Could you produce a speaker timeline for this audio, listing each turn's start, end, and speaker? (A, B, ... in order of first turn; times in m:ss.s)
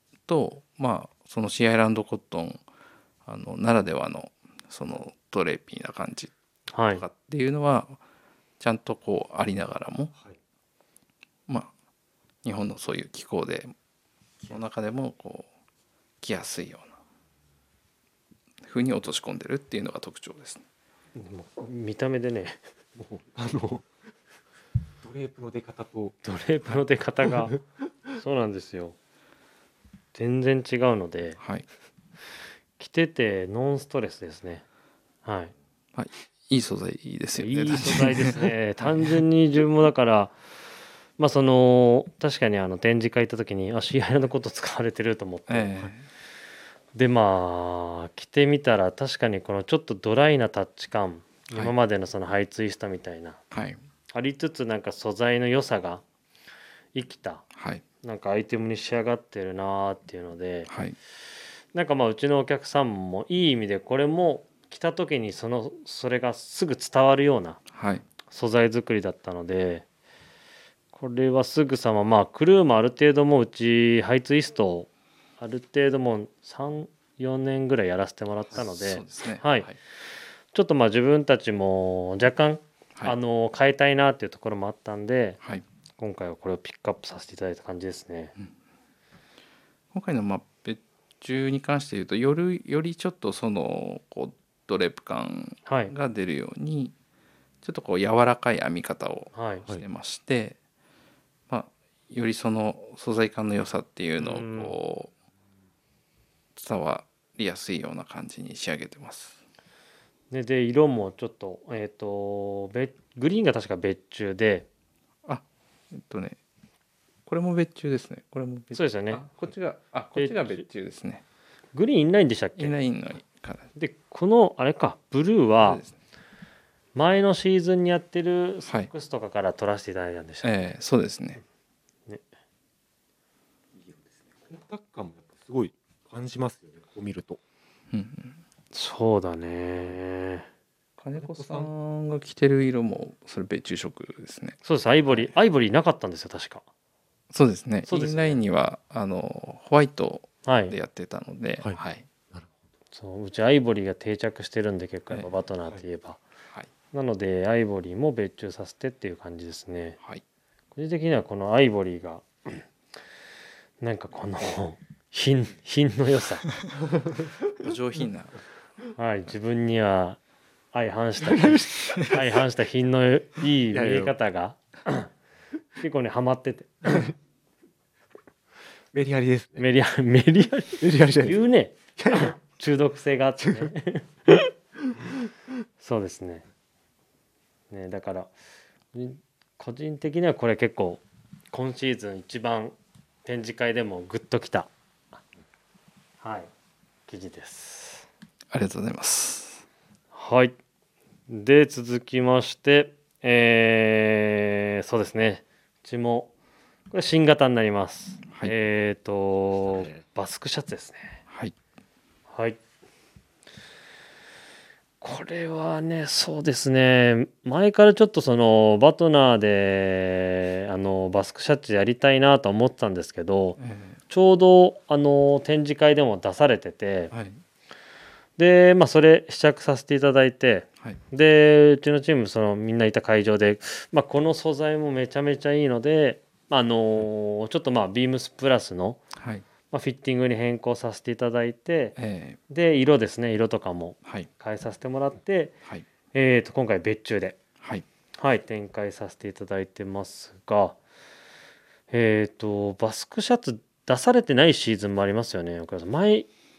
0:00.3-0:02.6 A
0:03.2-0:06.3 A
0:06.7-0:07.0 B
0:06.9-0:08.0 A
0:08.6-0:10.1 A
0:12.4-0:13.7 A
0:14.4-0:15.5 A
0:16.2-0:17.0 A
0:18.6-0:20.6 A
0:21.1-0:22.6 B
0:22.9-0:23.9 C
0:25.0-0:26.2 C
0:26.2-0:27.6 B
0:27.2-0:27.6 C
0:28.2-0:29.0 B
0:30.1-0:31.4 B
0:31.4-0:31.6 A
0:32.8-0:34.6 B
0:35.2-0:35.5 B
0:35.9-0:38.5 A
0:37.4-0:40.3 B
0:41.2-0:45.8 B
0:45.5-0:46.0 A
0:46.9-0:53.4 B
0:53.5-0:53.8 A
0:54.1-0:56.0 B
0:56.9-0:57.4 B
0:57.5-0:57.8 A
0:58.0-1:00.7 B
1:00.7-1:01.0 A
1:01.7-1:07.6 B
1:07.7-1:08.0 A
1:08.3-1:09.8 B
1:10.9-1:14.9 B
1:15.4-1:19.7 B
1:18.5-1:19.8 A
1:20.5-1:25.4 B
1:26.0-1:28.3 B
1:29.9-1:36.9 A
1:35.6-1:35.9 B
1:37.6-1:40.6 A
1:39.3-1:39.6 B
1:41.5-1:45.1 A
1:44.2-1:44.7 B
1:46.6-1:49.4 A
1:50.3-1:54.7 B
1:55.2-1:56.4 A
1:57.2-2:01.2 A
1:58.7-1:59.2 B
2:00.1-2:00.6 B
2:01.7-2:02.8 B
2:02.6-2:03.6 A
2:03.8-2:05.8 B
2:05.6-2:05.9 A
2:06.9-2:10.7 B
2:10.4-2:11.4 A
2:13.8-2:17.4 C
2:17.9-2:18.4 A
2:18.7-2:20.4 B
2:21.0-2:24.6 A
2:21.2-2:21.7 C
2:24.6-2:26.6 B
2:27.3-2:32.0 A
2:27.9-2:28.4 B
2:30.4-2:30.8 B
2:32.9-2:36.2 B
2:36.9-2:40.0 B
2:40.7-2:42.6 B
2:43.8-2:46.5 B
2:47.6-2:48.4 A
2:49.0-2:50.2 B
2:50.7-2:55.1 B
2:51.2-2:52.3 C
2:53.7-2:54.1 C
2:55.8-2:57.1 B
2:56.9-2:57.1 C
2:58.9-2:59.6 C
2:59.6-3:04.5 B
3:00.8-3:01.4 C
3:02.0-3:02.3 C
3:03.4-3:03.7 C
3:05.8-3:06.4 B
3:07.7-3:08.3 B
3:08.9-3:14.7 B
3:16.2-3:16.5 B
3:17.1-3:18.0 B
3:18.5-3:19.6 A
3:20.1-3:20.6 B
3:21.3-3:26.3 B
3:26.9-3:31.2 B
3:29.7-3:30.0 C
3:32.3-3:32.6 B
3:35.0-3:43.6 B
3:43.6-3:44.0 A
3:44.1-3:47.1 B
3:47.1-3:47.4 A
3:48.4-3:59.0 B
3:59.2-3:59.4 A
3:59.7-4:02.0 B
4:02.0-4:02.4 A
4:02.5-4:05.5 B
4:06.1-4:07.4 B
4:08.2-4:10.8 B
4:11.9-4:16.3 B